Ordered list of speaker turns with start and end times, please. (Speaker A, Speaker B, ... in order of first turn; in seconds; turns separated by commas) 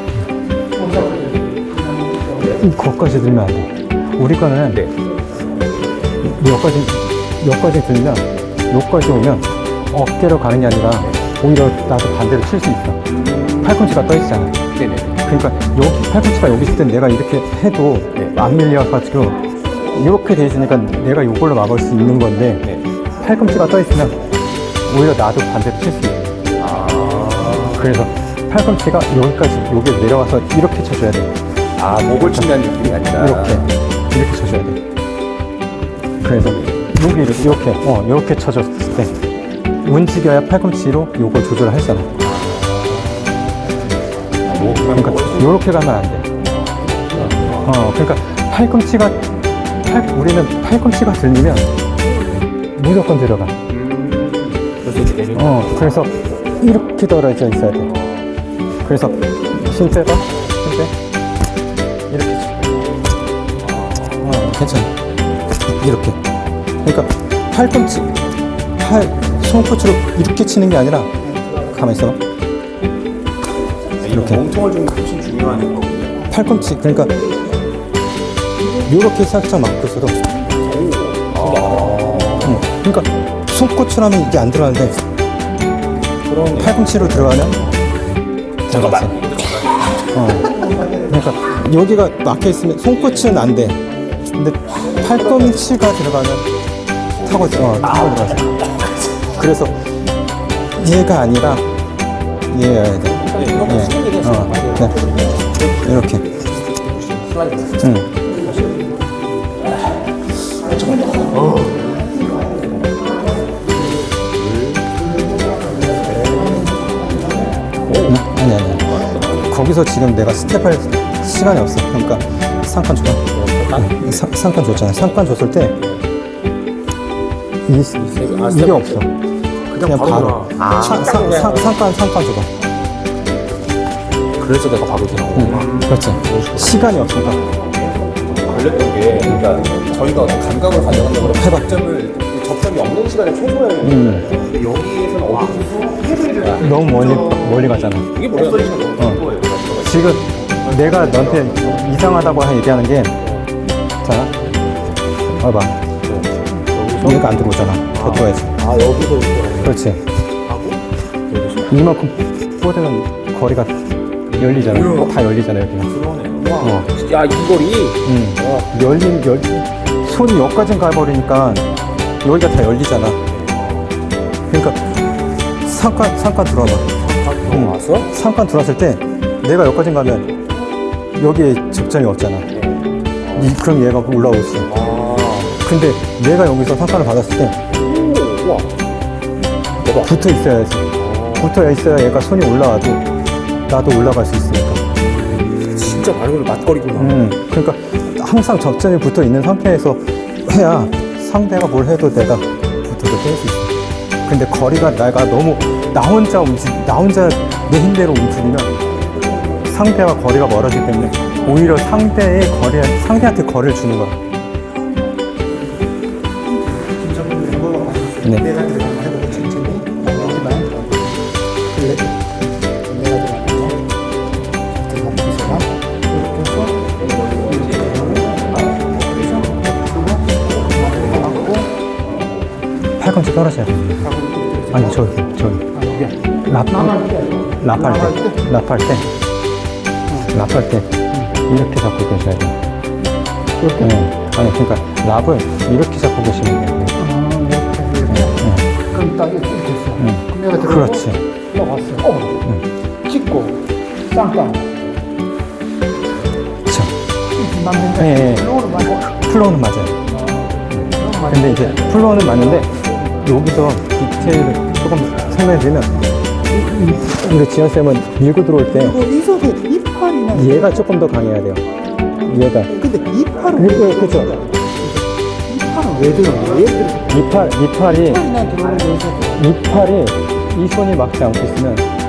Speaker A: 0.7-2.6, Speaker B: 2.4-4.8, Speaker C: 4.7-5.0, Speaker B: 6.2-13.0, Speaker C: 13.1-14.1, Speaker B: 13.6-14.6, Speaker C: 14.7-15.2, Speaker B: 15.2-24.2, Speaker B: 24.9-26.4, Speaker C: 26.6-27.9, Speaker B: 27.7-31.3, Speaker C: 31.8-33.7, Speaker B: 32.3-34.8, Speaker B: 36.2-39.2, Speaker C: 36.4-37.3, Speaker B: 39.8-42.1, Speaker C: 42.2-43.8, Speaker C: 44.4-45.6, Speaker B: 44.9-46.3, Speaker C: 47.0-47.6, Speaker B: 47.6-49.2, Speaker B: 49.8-51.7, Speaker B: 52.8-53.6, Speaker C: 53.7-56.1, Speaker B: 55.4-57.9, Speaker C: 57.8-58.3, Speaker B: 58.8-60.9, Speaker B: 62.1-62.7, Speaker C: 63.6-64.3, Speaker B: 64.2-64.9, Speaker B: 65.7-66.2, Speaker B: 66.8-68.2, Speaker B: 68.8-72.2, Speaker C: 74.0-76.8, Speaker B: 74.1-74.4, Speaker B: 76.3-77.3, Speaker B: 78.8-80.4, Speaker C: 80.5-82.7, Speaker B: 82.4-85.0, Speaker C: 86.0-87.4, Speaker B: 86.6-87.7, Speaker B: 88.7-89.4, Speaker C: 88.7-90.6, Speaker B: 90.0-93.8, Speaker A: 90.6-91.0, Speaker B: 94.3-96.5, Speaker C: 94.9-95.7, Speaker B: 97.2-98.6, Speaker C: 97.3-98.8, Speaker B: 99.2-100.0, Speaker B: 100.8-101.6, Speaker B: 102.5-105.0, Speaker C: 103.3-105.7, Speaker B: 105.7-106.3, Speaker C: 106.7-108.8, Speaker B: 107.8-108.2, Speaker A: 108.5-108.9, Speaker C: 110.6-112.1, Speaker A: 110.7-113.5, Speaker C: 114.2-115.0, Speaker A: 115.1-117.8, Speaker C: 115.9-116.8, Speaker C: 117.8-118.2, Speaker B: 118.0-125.8, Speaker C: 118.9-119.5, Speaker C: 123.3-124.3, Speaker C: 124.9-126.0, Speaker B: 127.7-129.1, Speaker C: 128.0-129.1, Speaker C: 129.7-131.8, Speaker B: 129.8-132.5, Speaker C: 134.4-152.0, Speaker B: 135.3-137.4, Speaker B: 141.2-141.8, Speaker B: 143.8-144.3, Speaker A: 146.1-146.3, Speaker B: 146.6-148.1, Speaker B: 149.0-149.2, Speaker B: 149.8-153.2, Speaker B: 154.0-154.3, Speaker B: 155.3-155.8, Speaker C: 156.1-157.3, Speaker B: 157.0-158.6, Speaker C: 157.9-159.8, Speaker B: 159.6-160.1, Speaker C: 160.5-161.8, Speaker B: 161.7-165.9, Speaker C: 164.3-165.2, Speaker C: 165.9-168.7, Speaker B: 166.6-166.9, Speaker B: 168.0-171.7, Speaker B: 172.2-173.2, Speaker C: 173.3-173.9, Speaker B: 174.5-175.0, Speaker B: 175.6-180.3, Speaker C: 177.0-178.1, Speaker B: 181.2-182.5, Speaker C: 182.5-183.6, Speaker B: 183.3-184.8, Speaker C: 184.7-185.6, Speaker B: 185.6-187.6, Speaker C: 187.7-188.8, Speaker C: 189.8-190.2, Speaker B: 190.0-193.0, Speaker C: 191.0-191.5, Speaker B: 193.7-194.8, Speaker C: 195.0-197.2, Speaker B: 196.9-208.8, Speaker B: 209.6-214.2, Speaker A: 216.5-222.3, Speaker B: 218.2-218.5, Speaker A: 222.8-223.8, Speaker A: 224.7-228.4, Speaker C: 227.1-229.8, Speaker A: 229.1-231.7, Speaker B: 233.0-234.2, Speaker A: 234.1-235.1, Speaker B: 234.7-235.7, Speaker A: 235.7-238.4, Speaker B: 236.3-239.1, Speaker B: 240.3-240.9, Speaker B: 241.5-242.6, Speaker A: 243.6-243.9, Speaker B: 243.8-247.0, Speaker A: 247.0-252.4, Speaker B: 248.1-248.7, Speaker B: 250.0-251.2, Speaker A: 253.0-254.8, Speaker B: 256.7-256.9, Speaker A: 257.4-259.0, Speaker B: 257.9-260.0, Speaker B: 260.7-269.0, Speaker A: 260.9-262.9, Speaker A: 268.7-270.9, Speaker B: 270.3-272.8, Speaker A: 272.7-277.1, Speaker B: 273.5-274.4, Speaker B: 277.1-278.2, Speaker A: 277.8-279.4, Speaker B: 279.3-281.9